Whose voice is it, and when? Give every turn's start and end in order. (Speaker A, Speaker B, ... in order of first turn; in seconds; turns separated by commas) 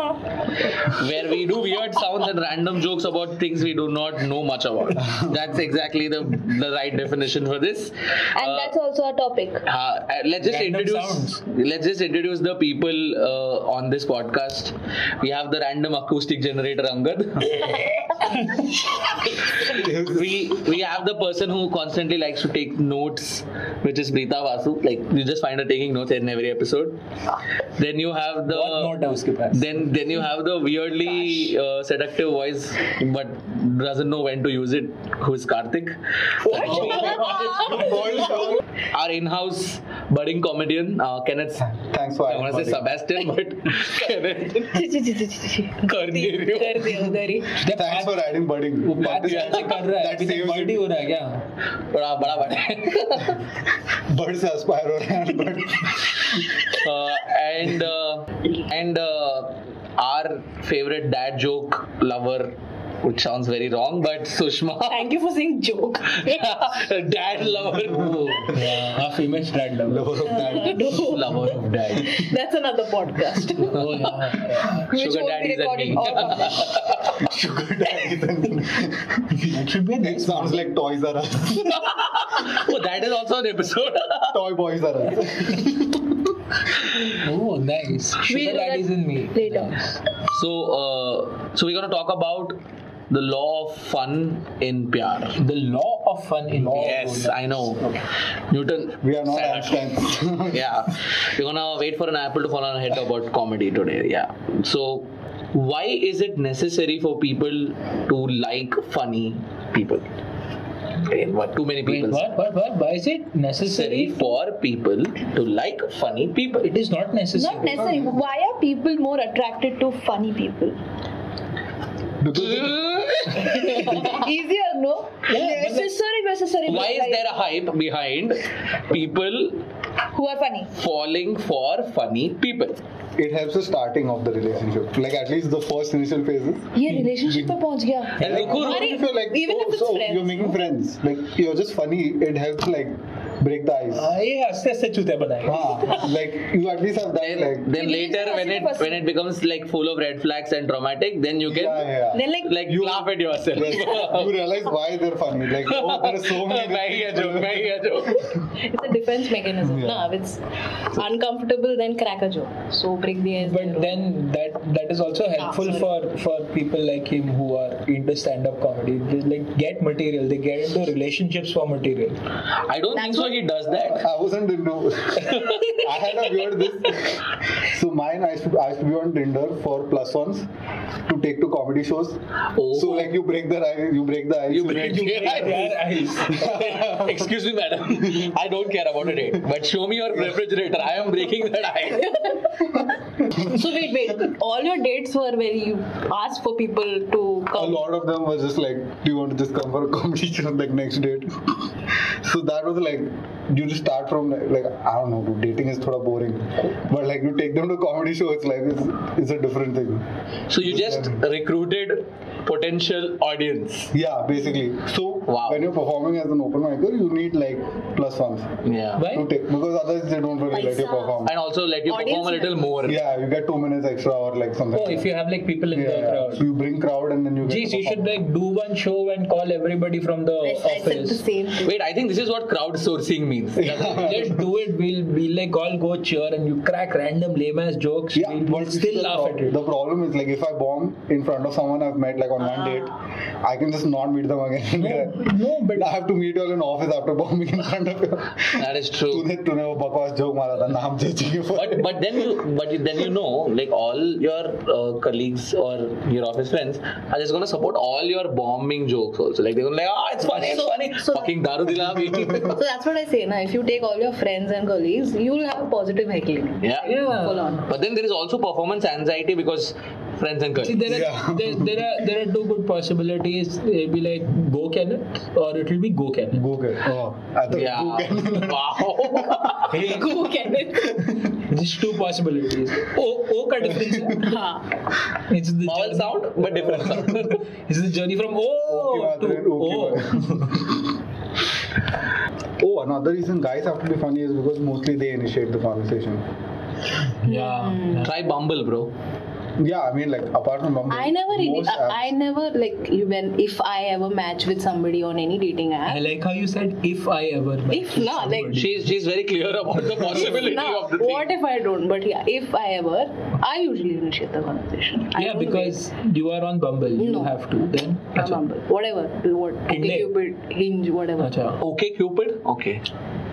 Speaker A: 0.8-8.8, Speaker B: 5.0-5.4, Speaker C: 8.3-9.7, Speaker A: 9.7-18.6, Speaker D: 10.4-11.4, Speaker A: 19.2-27.0, Speaker B: 19.7-20.5, Speaker A: 27.8-29.0, Speaker D: 28.5-29.7, Speaker A: 29.5-41.7, Speaker D: 36.5-38.3, Speaker B: 36.7-38.6, Speaker B: 41.6-42.9, Speaker A: 42.2-44.9, Speaker C: 44.8-45.8, Speaker E: 45.7-47.6, Speaker A: 45.8-47.0, Speaker D: 47.6-51.5, Speaker B: 47.7-50.9, Speaker A: 49.3-49.8, Speaker A: 51.9-53.5, Speaker B: 53.9-56.6, Speaker A: 56.8-65.1, Speaker E: 64.9-66.6, Speaker A: 66.1-68.6, Speaker B: 67.9-68.5, Speaker D: 68.5-70.3, Speaker B: 69.8-71.2, Speaker E: 70.2-74.1, Speaker A: 70.8-72.2, Speaker D: 73.6-74.8, Speaker C: 74.7-76.8, Speaker A: 74.8-77.1, Speaker B: 77.2-81.8, Speaker D: 79.4-80.7, Speaker A: 81.8-84.4, Speaker B: 84.3-86.2, Speaker D: 87.1-90.0, Speaker E: 88.2-89.8, Speaker A: 90.3-92.6, Speaker A: 93.1-95.4, Speaker D: 95.4-97.9, Speaker B: 96.5-97.2, Speaker A: 96.7-98.0, Speaker A: 98.5-99.8, Speaker B: 99.0-100.8, Speaker A: 100.5-110.1, Speaker A: 111.0-112.2, Speaker D: 111.8-114.3, Speaker A: 113.6-116.7, Speaker D: 116.6-117.9, Speaker C: 117.4-120.8, Speaker B: 117.7-118.2, Speaker B: 122.2-123.2, Speaker A: 122.3-124.1, Speaker C: 123.3-127.2, Speaker D: 125.3-125.9, Speaker A: 126.7-129.6, Speaker C: 130.1-130.7, Speaker A: 130.8-132.8, Speaker B: 133.2-137.6, Speaker C: 136.8-138.3, Speaker A: 138.2-139.0, Speaker B: 138.2-144.1, Speaker E: 138.3-140.6, Speaker D: 143.9-146.0, Speaker B: 145.4-147.7, Speaker A: 147.2-154.4, Speaker C: 147.7-149.0, Speaker B: 151.5-158.3, Speaker E: 152.1-152.6, Speaker A: 155.6-158.3, Speaker E: 158.5-164.0, Speaker B: 159.6-160.1, Speaker D: 163.4-172.2, Speaker E: 165.4-165.9, Speaker A: 172.6-174.1, Speaker E: 172.9-173.4, Speaker B: 173.7-180.5, Speaker A: 175.3-175.7, Speaker B: 181.1-185.3, Speaker A: 182.5-183.1, Speaker A: 184.5-192.4, Speaker D: 184.7-186.6, Speaker B: 186.2-187.3, Speaker B: 188.0-188.3, Speaker E: 192.0-192.8, Speaker E: 193.3-197.8, Speaker B: 197.5-210.1, Speaker A: 210.5-213.9, Speaker B: 210.6-211.2, Speaker B: 213.9-218.6, Speaker A: 215.3-215.7, Speaker A: 218.7-219.1, Speaker D: 219.0-219.3, Speaker B: 219.1-221.4, Speaker E: 220.5-221.2, Speaker A: 221.2-223.0, Speaker E: 221.9-222.6, Speaker B: 222.8-225.1, Speaker D: 224.7-226.5, Speaker B: 225.7-228.2, Speaker D: 227.4-231.2, Speaker E: 230.4-231.8, Speaker A: 231.6-234.2, Speaker B: 233.6-234.5, Speaker D: 233.8-239.6, Speaker B: 238.1-252.2, Speaker E: 242.5-242.9, Speaker D: 244.8-245.9, Speaker A: 248.6-249.3, Speaker A: 251.5-262.6, Speaker E: 260.3-261.3, Speaker B: 261.9-262.5, Speaker E: 262.4-267.7, Speaker A: 266.6-266.9, Speaker D: 266.8-267.6, Speaker A: 267.6-270.9, Speaker D: 270.6-276.4, Speaker B: 270.9-271.9, Speaker B: 276.3-279.5, Speaker A: 277.5-279.8, Speaker D: 279.7-280.2, Speaker E: 279.7-281.2, Speaker D: 281.4-284.4, Speaker B: 283.7-284.2, Speaker E: 284.2-284.7, Speaker D: 285.2-286.3, Speaker A: 285.7-287.4, Speaker D: 287.7-290.7, Speaker B: 288.6-290.9, Speaker B: 292.6-296.2, Speaker D: 297.2-298.1, Speaker E: 297.3-298.1, Speaker A: 298.0-298.9, Speaker B: 299.6-302.1, Speaker E: 300.9-306.1, Speaker D: 305.9-308.9, Speaker E: 307.7-308.6, Speaker A: 308.6-311.3, Speaker E: 310.2-315.8, Speaker D: 315.1-318.4, Speaker E: 317.0-317.3, Speaker E: 318.1-321.4, Speaker D: 319.7-320.1, Speaker D: 321.2-321.6, Speaker A: 321.6-322.8